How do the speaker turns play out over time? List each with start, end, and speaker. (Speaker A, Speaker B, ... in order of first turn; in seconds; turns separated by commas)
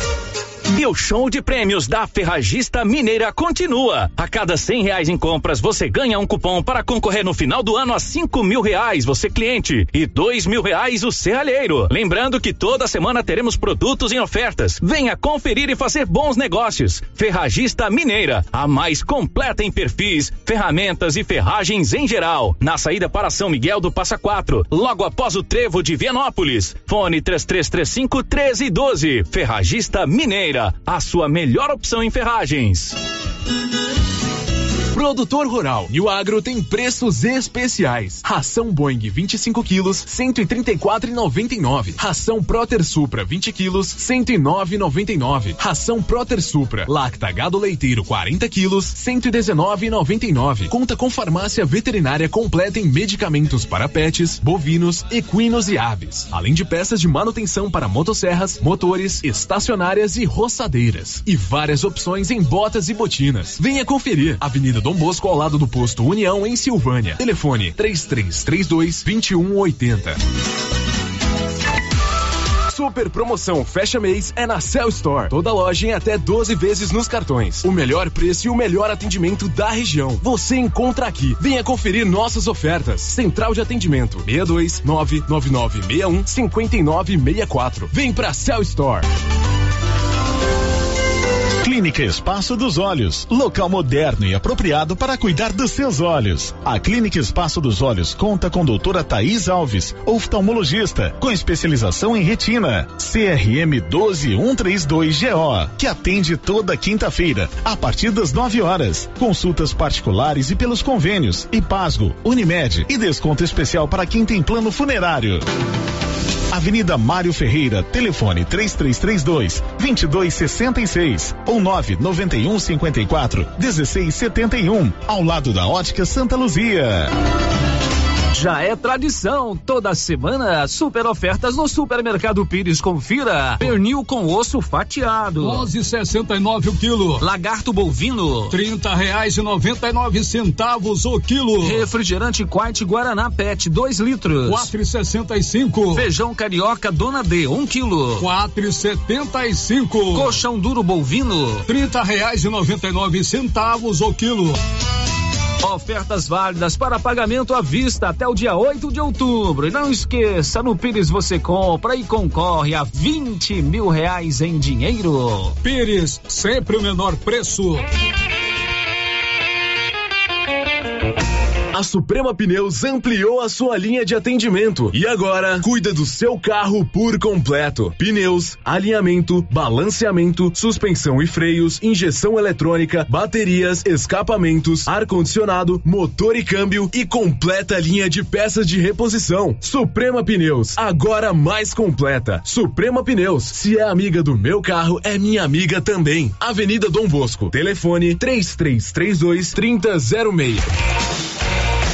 Speaker A: 0.8-12.1, Speaker A: 12.9-13.6, Speaker A: 15.8-16.6, Speaker A: 20.5-26.2, Speaker A: 26.7-32.9, Speaker B: 34.9-70.2, Speaker B: 72.7-89.0, Speaker C: 91.6-115.4, Speaker C: 116.5-127.1, Speaker D: 128.3-135.7, Speaker E: 135.4-137.2, Speaker D: 137.2-138.5, Speaker E: 138.5-141.8, Speaker D: 141.6-144.7, Speaker E: 144.4-146.1, Speaker D: 145.9-148.2, Speaker E: 148.2-150.4, Speaker D: 150.1-151.6, Speaker E: 151.7-154.6, Speaker D: 155.6-165.6, Speaker E: 165.6-167.8, Speaker B: 171.7-200.6